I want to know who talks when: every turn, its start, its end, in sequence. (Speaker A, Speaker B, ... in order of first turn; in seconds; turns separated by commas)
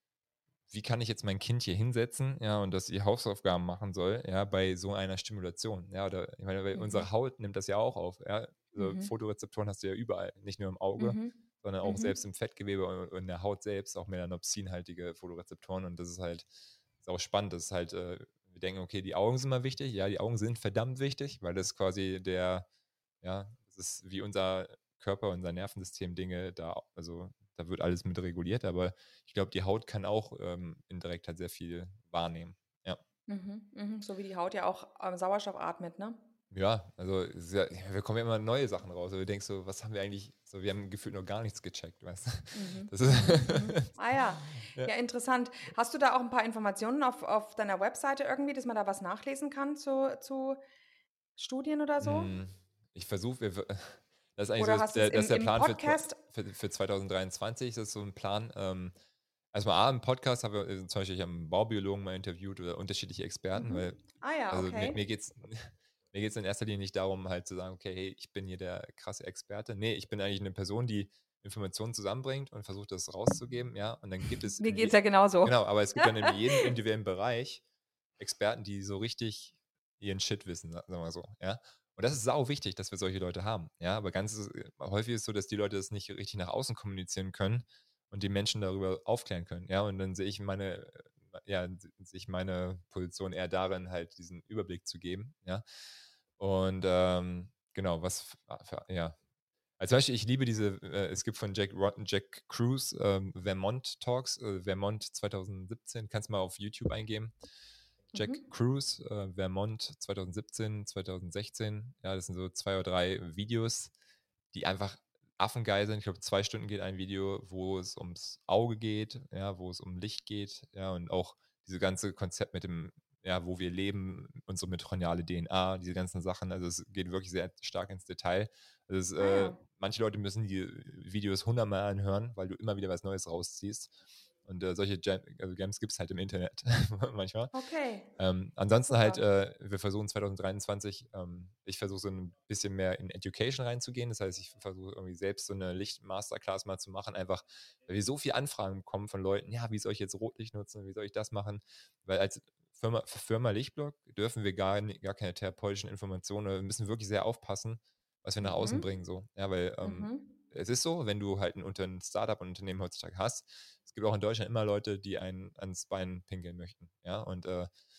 Speaker A: 0.7-16.5, Speaker B: 6.8-7.1, Speaker B: 8.8-9.1, Speaker B: 11.0-12.1, Speaker A: 17.0-22.7, Speaker A: 23.2-33.0, Speaker B: 33.3-36.2, Speaker A: 36.5-44.9, Speaker B: 42.5-50.6, Speaker B: 51.4-52.3, Speaker A: 52.0-58.9, Speaker B: 54.6-56.2, Speaker A: 59.5-77.6, Speaker B: 63.6-65.0, Speaker B: 74.6-76.7, Speaker A: 78.2-95.7, Speaker A: 96.4-99.2, Speaker A: 99.8-107.3, Speaker B: 108.1-108.4, Speaker A: 108.1-113.9, Speaker A: 114.5-133.9, Speaker B: 129.2-129.6, Speaker A: 134.4-137.5, Speaker B: 137.5-138.1, Speaker A: 138.2-167.7, Speaker B: 138.9-139.2, Speaker B: 158.4-158.8, Speaker B: 159.8-160.3